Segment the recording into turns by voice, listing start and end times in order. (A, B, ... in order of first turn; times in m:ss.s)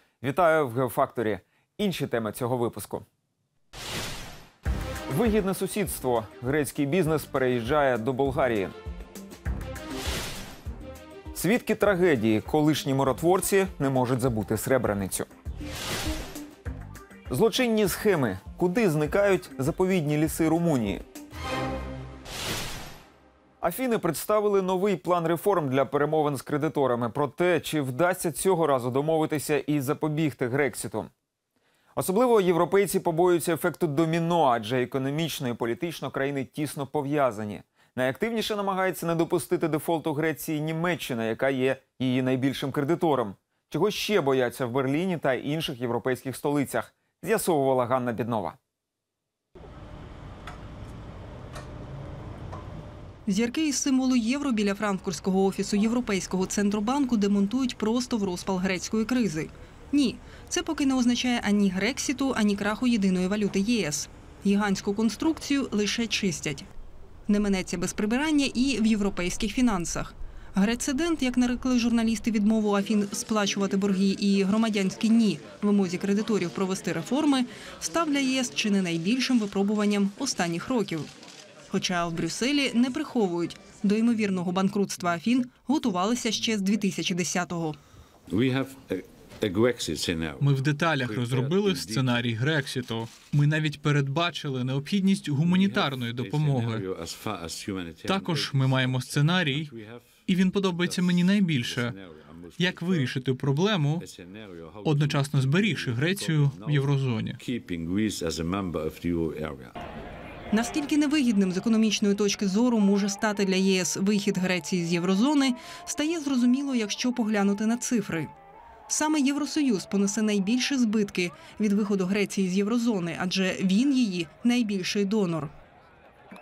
0:00.2-0:03.0 A
0:05.1-0:08.8 A
0:11.3-0:15.3 A
0:17.3-0:21.0 A
0:23.6-0:31.1 A
0:32.0-0:48.6 A
0:53.3-1:06.7 B
1:07.3-1:21.1 B
1:21.7-1:27.8 B
1:28.3-1:32.3 C
1:30.4-1:36.9 D
1:35.4-1:43.3 C
1:38.0-1:39.7 D
1:40.3-1:42.0 D
1:42.6-1:44.0 D
1:44.0-1:49.7 C
1:44.8-1:47.4 D
1:50.5-1:58.3 B
1:58.9-2:05.5 B